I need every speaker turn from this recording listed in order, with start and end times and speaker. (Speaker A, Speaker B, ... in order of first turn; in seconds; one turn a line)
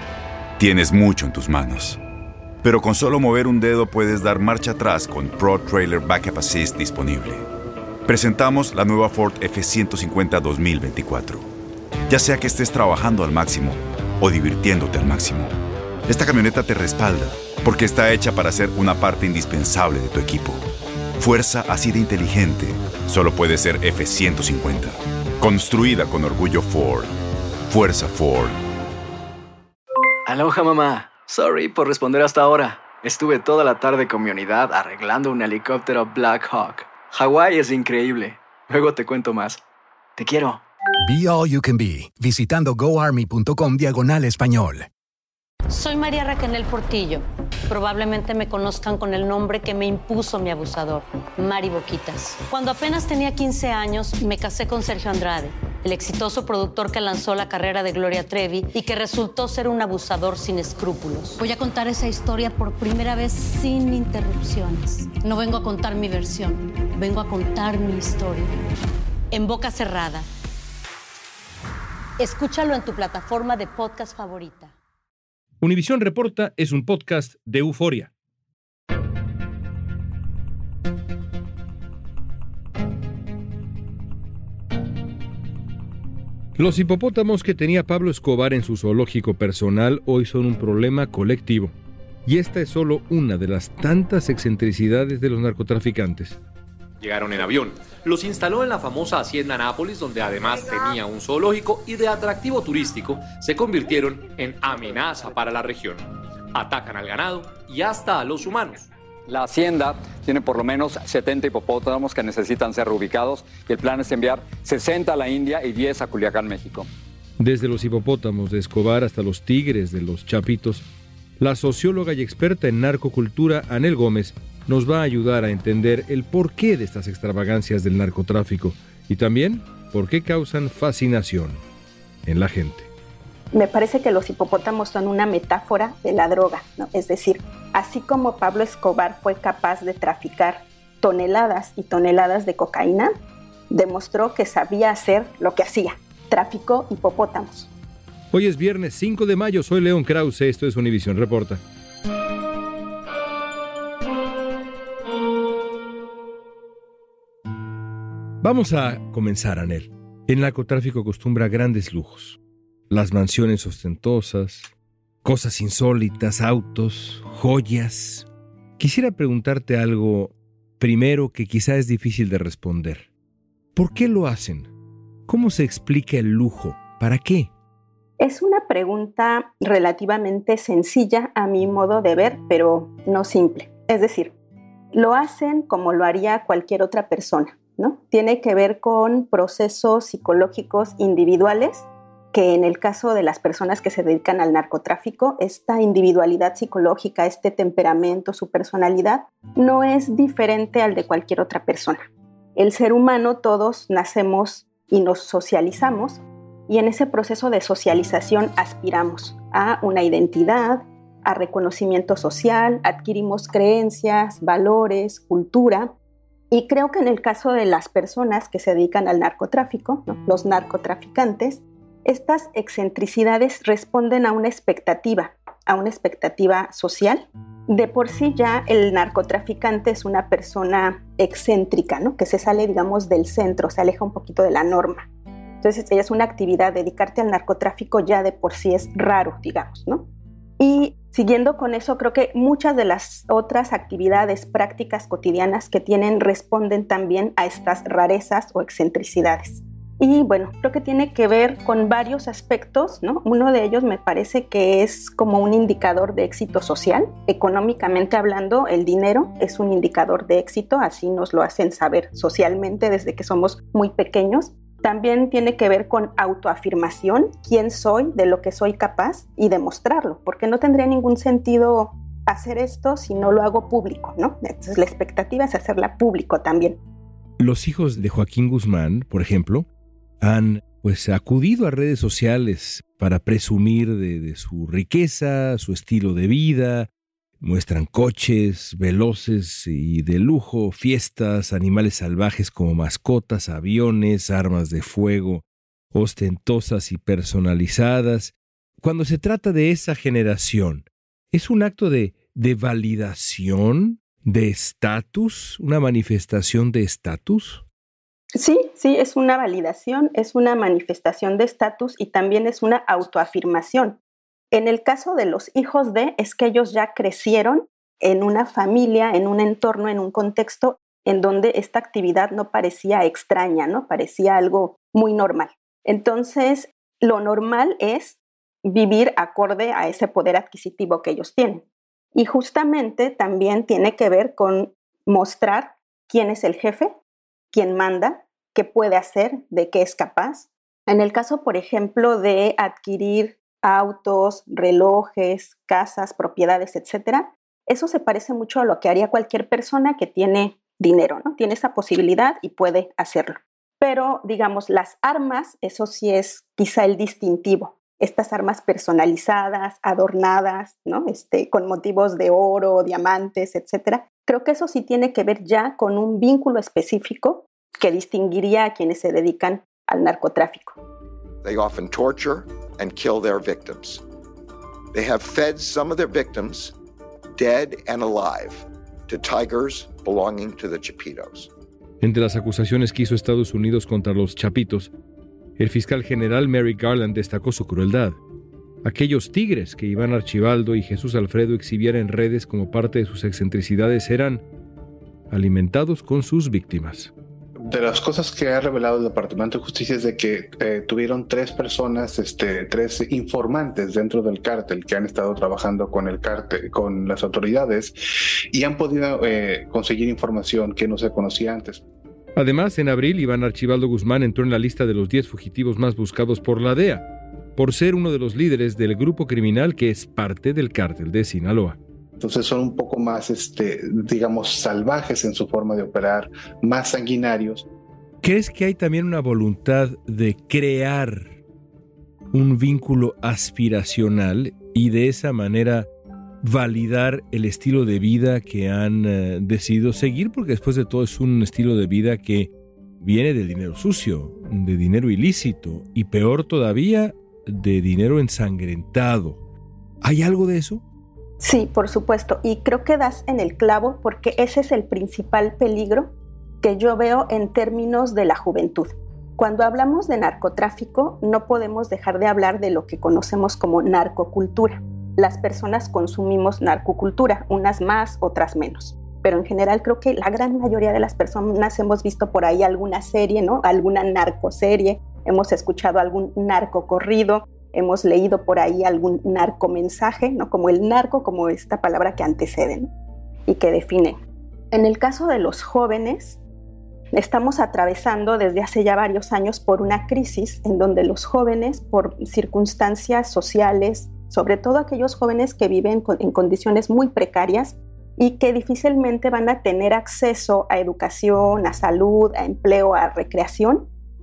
Speaker A: 0.6-2.0
Speaker A: 2.6-7.5
Speaker A: 8.1-11.5
Speaker A: 12.1-15.5
Speaker A: 16.1-20.6
Speaker A: 21.2-27.1
Speaker A: 27.7-28.6
Speaker B: 30.2-39.6
Speaker B: 40.2-40.6
Speaker C: 41.0-44.9
Speaker D: 45.7-68.5
Speaker D: 69.3-70.3
Speaker D: 72.2-74.7
Speaker E: 75.6-78.1
Speaker E: 86.6-91.7
Speaker E: 92.3-96.4
Speaker F: 97.0-108.9
Speaker G: 109.3-116.9
Speaker E: 117.4-120.9
Speaker E: 121.4-131.6
Speaker E: 132.2-132.9
Speaker H: 133.5-143.1
Speaker H: 143.7-147.7
Speaker E: 148.3-151.6
Speaker E: 158.4-162.4
Speaker E: 162.9-164.7
Speaker E: 165.2-168.3
Speaker E: 168.8-173.1
Speaker E: 173.8-174.7
Speaker E: 175.3-177.5
Speaker H: 178.2-184.3
Speaker H: 184.9-215.9
Speaker H: 216.5-235.1
Speaker H: 235.6-240.1
Speaker H: 240.6-276.8
Speaker E: 277.4-279.7
Speaker E: 280.2-286.9
Speaker E: 287.4-307.6
Speaker H: 308.4-314.0
Speaker H: 314.5-336.9
Speaker H: 337.5-370.8
Speaker I: 371.4-374.0
Speaker I: 374.9-376.8
Speaker I: 377.4-381.5
Speaker E: 382.0-384.9
Speaker E: 385.6-388.2
Speaker E: 388.8-394.4
Speaker E: 395.3-397.1
Speaker J: 397.7-407.9
Speaker J: 408.5-411.8
Speaker E: 412.4-417.1
Speaker E: 417.6-421.8
Speaker J: 422.2-427.7
Speaker E: 428.2-431.4
Speaker E: 432.3-435.9
Speaker E: 436.4-449.4
Speaker E: 450.0-450.8
Speaker H: 451.4-482.9
Speaker H: 483.5-484.2
Speaker H: 484.7-486.4
Speaker H: 487.1-503.9